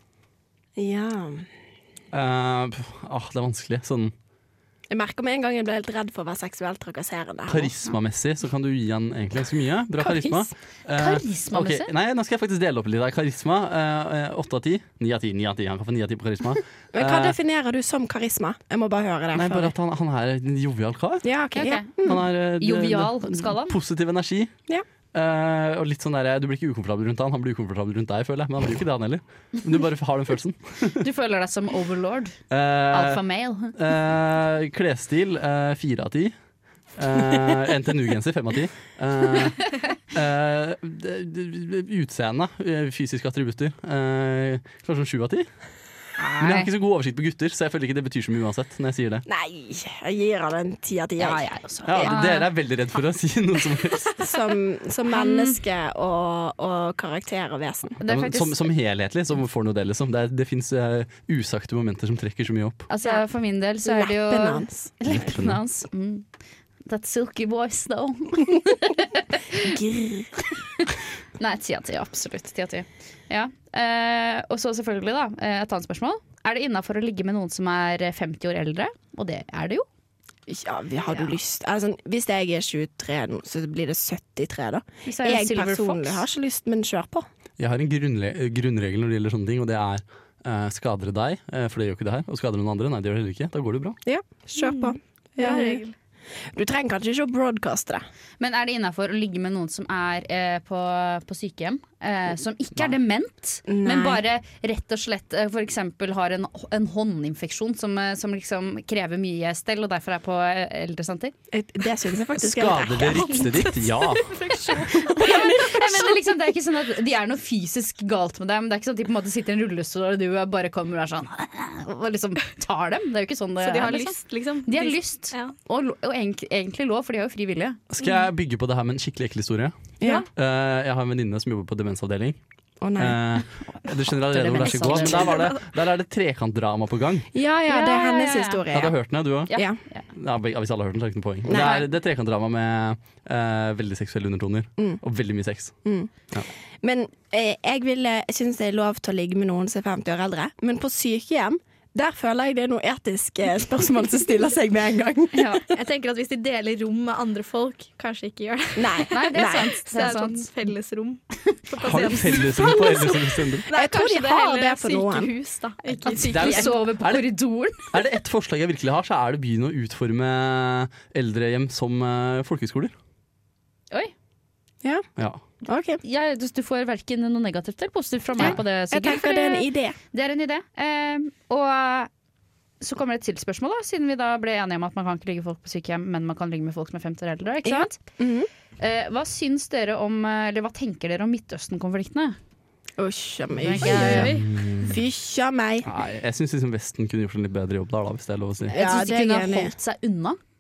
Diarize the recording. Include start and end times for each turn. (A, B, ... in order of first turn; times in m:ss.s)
0:00.8-0:01.5 A
0:02.1-0:04.1 B
0:04.9-0:07.7 A
0:07.5-0:17.4 B
0:10.0-0:10.5 A
0:11.0-0:11.9 C
0:16.9-0:19.7 A
0:19.3-0:21.3 B
0:21.2-0:22.2 A
0:21.6-0:23.8 C
0:22.0-0:24.5 B
0:25.1-0:31.0 B
0:31.0-0:32.4 C
0:32.5-0:33.2 B
0:32.9-0:33.8 C
0:33.7-0:36.3 B
0:37.0-0:45.5 B
0:46.2-0:46.7 C
0:46.4-0:49.2 B
0:49.3-0:52.2 A
0:51.2-0:52.5 C
0:51.9-0:54.2 B
0:54.2-0:58.0 A
0:55.1-0:55.6 C
0:58.0-0:58.6 C
0:58.0-1:02.9 B
1:02.9-1:06.3 C
1:03.8-1:05.2 A
1:05.1-1:05.6 B
1:06.9-1:09.7 C
1:09.6-1:10.4 A
1:10.8-1:19.9 C
1:20.5-1:27.3 A
1:25.0-1:26.2 C
1:27.6-1:34.0 B
1:34.0-1:35.8 A
1:34.6-1:35.9 D
1:36.5-1:38.0 A
1:38.4-1:51.3 C
1:43.7-1:44.2 A
1:51.5-1:53.5 A
1:52.4-1:54.3 B
1:53.3-1:55.8 D
1:55.1-2:07.8 C
1:55.2-1:55.8 A
2:03.6-2:05.5 D
2:07.9-2:09.8 B
2:10.0-2:10.3 A
2:10.4-2:12.4 B
2:12.8-2:13.2 A
2:13.0-2:17.3 B
2:13.8-2:15.5 C
2:17.3-2:19.0 A
2:17.7-2:18.6 C
2:18.7-2:19.6 B
2:19.5-2:19.8 A
2:19.5-2:20.0 C
2:20.1-2:25.8 B
2:21.5-2:21.8 A
2:21.5-2:21.8 C
2:25.8-2:26.1 A
2:26.8-2:35.5 A
2:35.3-2:35.6 C
2:35.7-2:46.8 D
2:38.8-2:39.7 A
2:39.1-2:40.5 C
2:41.8-2:43.7 B
2:42.3-2:45.3 A
2:46.0-2:47.9 C
2:46.3-2:47.2 B
2:47.9-2:52.9 B
2:55.6-2:56.0 A
2:56.0-3:02.1 C
2:58.4-3:00.0 A
3:02.8-3:08.0 C
3:07.6-3:08.5 A
3:08.8-3:12.4 C
3:13.0-3:15.9 A
3:13.6-3:14.4 C
3:13.8-3:14.4 D
3:14.2-3:15.0 B
3:15.8-3:18.8 B
3:18.7-3:19.7 A
3:18.7-3:20.4 C